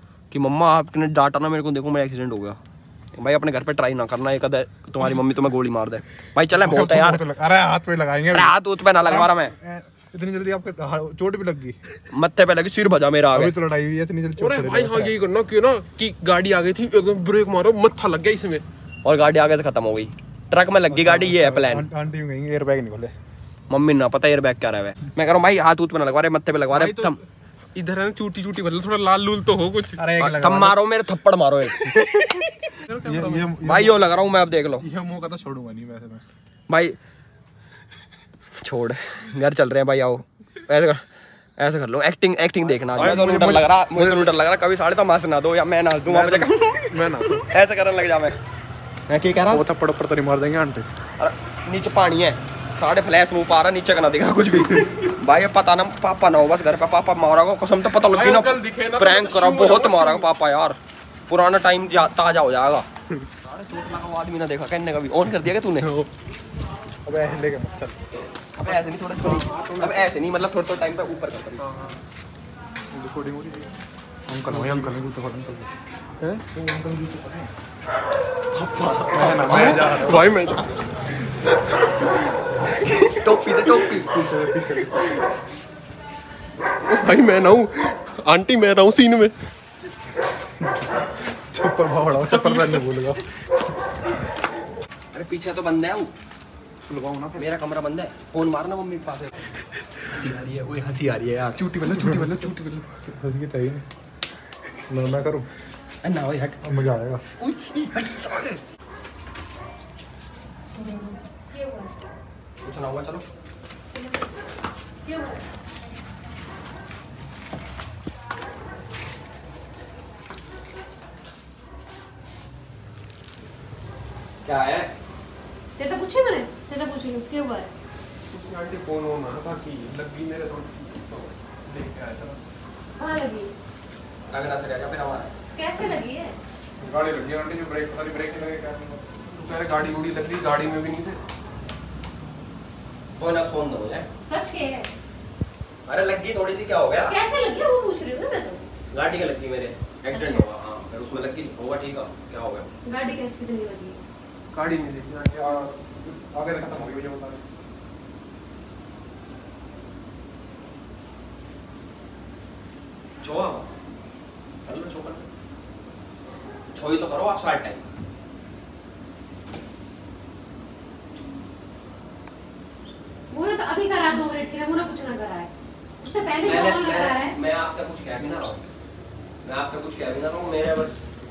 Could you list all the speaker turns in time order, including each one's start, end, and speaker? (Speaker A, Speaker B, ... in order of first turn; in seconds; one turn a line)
Speaker A: 0.3-2.6
Speaker A: 3.1-7.2
Speaker B: 6.5-11.8
Speaker A: 8.3-9.5
Speaker A: 12.1-13.5
Speaker B: 13.3-15.2
Speaker C: 14.4-18.6
Speaker A: 19.0-21.9
Speaker B: 20.9-23.1
Speaker A: 23.7-27.2
Speaker C: 26.7-27.2
Speaker C: 27.8-30.0
Speaker B: 30.0-30.8
Speaker A: 30.2-32.0
Speaker C: 31.9-33.6
Speaker B: 33.0-34.1
Speaker A: 33.6-34.9
Speaker B: 34.8-36.2
Speaker A: 36.7-37.0
Speaker A: 38.6-41.0
Speaker A: 41.6-48.4
Speaker B: 42.8-44.4
Speaker B: 46.1-47.4
Speaker A: 49.1-49.6
Speaker B: 49.5-50.9
Speaker A: 51.2-62.9
Speaker C: 57.9-60.3
Speaker A: 63.4-65.9
Speaker C: 65.8-66.1
Speaker B: 67.0-68.0
Speaker A: 68.6-71.7
Speaker C: 68.7-70.0
Speaker C: 71.6-72.0
Speaker B: 72.9-73.7
Speaker B: 74.3-75.7
Speaker C: 74.5-74.9
Speaker B: 76.5-77.5
Speaker A: 78.5-79.8
Speaker B: 79.1-80.6
Speaker C: 79.3-80.7
Speaker B: 81.2-81.8
Speaker C: 82.9-85.2
Speaker A: 83.1-84.3
Speaker C: 86.9-89.3
Speaker B: 90.6-93.2
Speaker C: 92.2-92.9
Speaker A: 95.1-96.1
Speaker B: 96.9-97.5
Speaker A: 97.3-99.4
Speaker A: 100.1-102.6
Speaker C: 101.8-102.9
Speaker B: 103.2-103.8
Speaker B: 104.9-105.5
Speaker A: 106.0-106.6
Speaker B: 106.6-107.2
Speaker A: 107.3-108.6
Speaker D: 110.8-112.0
Speaker A: 112.6-113.2
Speaker D: 115.0-115.4
Speaker A: 124.4-124.9
Speaker D: 125.8-127.7
Speaker C: 128.3-132.6
Speaker D: 133.0-133.5
Speaker A: 134.3-135.3
Speaker D: 135.5-136.4
Speaker B: 136.8-139.0
Speaker C: 139.3-141.2
Speaker A: 143.2-144.1
Speaker D: 144.2-144.9
Speaker A: 145.9-147.2
Speaker D: 147.1-148.7
Speaker A: 148.9-152.7
Speaker D: 150.1-150.5
Speaker D: 152.8-154.0
Speaker C: 154.5-155.5
Speaker B: 155.2-157.4
Speaker A: 163.2-163.7
Speaker A: 164.7-165.2
Speaker A: 166.7-167.8
Speaker D: 173.3-177.4
Speaker A: 176.4-178.7
Speaker A: 179.4-180.9